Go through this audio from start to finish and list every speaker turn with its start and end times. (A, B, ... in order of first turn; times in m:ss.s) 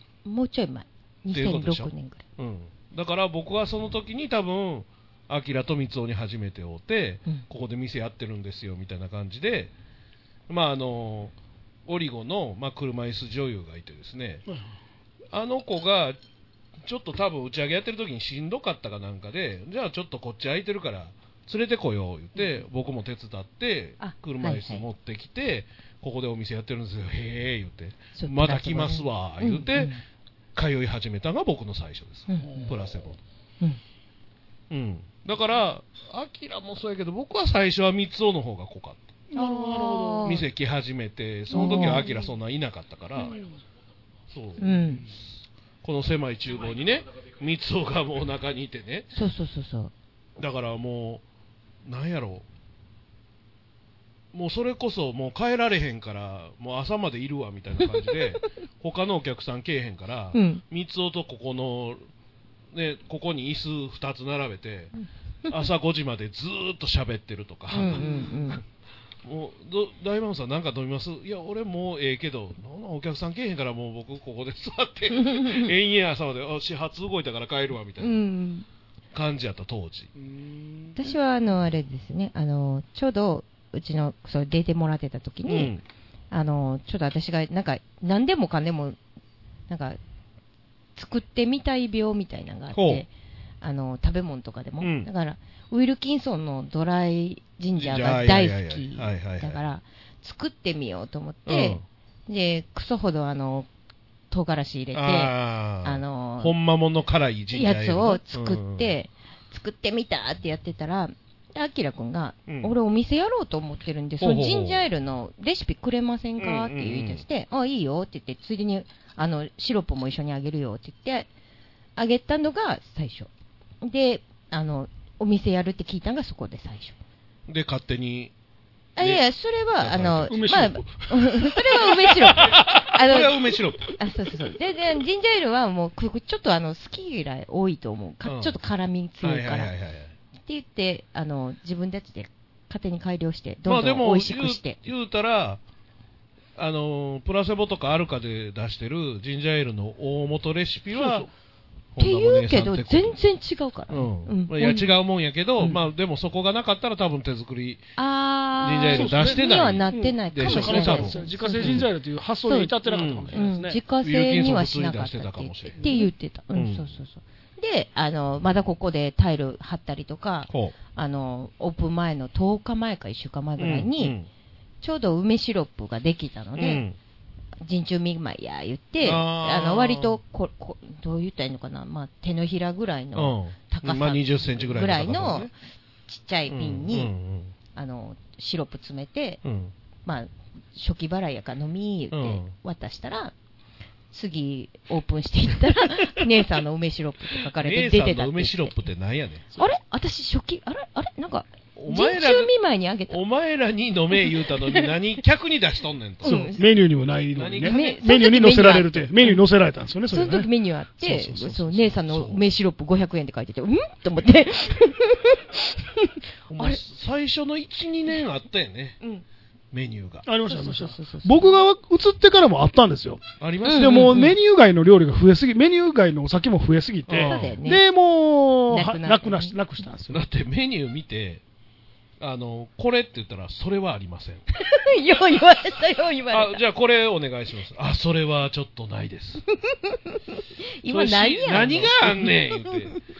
0:00.2-0:02.2 A
0:01.3-0:09.7 B
0:10.5-0:11.3 B
0:11.8-0:14.4 B
0:14.5-0:14.7 C
0:15.3-0:16.2 B
0:16.8-0:29.9 B
0:24.0-0:24.8 A
0:28.1-0:30.0 A
0:30.5-0:33.2 B
0:32.3-0:32.7 A
0:32.4-0:32.7 C
0:34.7-0:39.1 B
0:39.3-0:40.3 C
0:39.3-0:40.4 A
0:40.2-0:43.4 B
0:41.5-0:42.1 A
0:41.5-0:42.2 C
0:43.2-0:43.5 C
0:44.3-0:44.8 B
0:44.6-0:45.0 A
0:45.8-0:49.1 B
0:49.1-0:49.9 A
0:50.4-0:51.2 B
0:51.8-0:52.4 B
0:54.3-1:02.1 B
1:00.3-1:00.6 A
1:02.7-1:04.9 B
1:05.5-1:08.5 B
1:07.7-1:08.6 A
1:07.9-1:08.3 C
1:09.2-1:18.2 B
1:15.2-1:15.7 A
1:18.0-1:18.6 A
1:19.1-1:20.1 B
1:20.2-1:21.0 C
1:21.0-1:25.7 A
1:25.4-1:25.8 B
1:26.3-1:29.0 A
1:29.7-1:30.0 A
1:31.0-1:33.1 A
1:32.7-1:33.0 B
1:33.6-1:43.7 A
1:34.8-1:35.1 B
1:37.8-1:39.6 B
1:41.4-1:41.8 B
1:44.3-1:46.6 A
1:44.9-1:49.0 B
1:47.5-2:01.3 A
1:52.5-1:52.7 B
1:54.2-1:54.9 B
1:56.4-1:57.2 B
2:02.0-2:03.3 A
2:03.8-2:06.9 A
2:07.5-2:08.3 B
2:09.0-2:13.4 A
2:09.0-2:09.2 B
2:09.8-2:10.4 B
2:10.3-2:12.9 C
2:12.9-2:13.9 B
2:14.0-2:19.7 A
2:18.2-2:18.5 B
2:19.2-2:20.2 B
2:20.4-2:24.8 A
2:23.6-2:25.6 B
2:26.6-2:31.3 B
2:30.9-2:31.3 C
2:31.9-2:33.2 B
2:32.0-2:34.9 A
2:33.9-2:37.8 B
2:38.0-2:41.8 A
2:38.6-2:41.9 B
2:38.9-2:43.8 C
2:42.4-2:42.7 A
2:42.9-2:43.4 B
2:43.3-2:54.2 A
2:44.0-2:45.9 B
2:45.8-2:46.1 C
2:46.5-2:47.0 B
2:50.5-2:50.7 B
2:53.6-2:54.3 B
2:54.8-2:56.8 A
2:56.6-2:57.0 B
2:57.6-3:05.5 A
2:59.0-3:00.2 B
3:03.1-3:05.5 B
3:06.1-3:07.1 A
3:06.5-3:07.5 B
3:07.7-3:09.4 A
3:09.4-3:09.7 B
3:10.0-3:13.3 A
3:12.1-3:12.5 B
3:14.1-3:18.9 A
3:17.5-3:19.5 B
3:19.6-3:23.2 A
3:21.7-3:22.5 B
3:23.1-3:26.4 B
3:24.2-3:24.9 A
3:26.2-3:26.6 A
3:26.2-3:31.9 C
3:27.3-3:27.8 B
3:27.6-3:29.4 A
3:30.1-3:36.8 A
3:31.9-3:32.4 B
3:36.5-3:39.0 B
3:39.7-3:40.3 B
3:40.2-3:50.2 C
3:40.5-3:41.6 A
3:43.4-3:44.0 B
3:43.6-3:44.4 A
3:47.1-3:47.6 B
3:47.2-3:47.8 A
3:48.7-3:49.5 A
3:50.1-3:51.4 B
3:52.2-3:54.4 B
3:54.6-3:56.6 A
3:56.3-3:59.4 B
3:59.6-4:03.0 A
4:00.9-4:03.0 B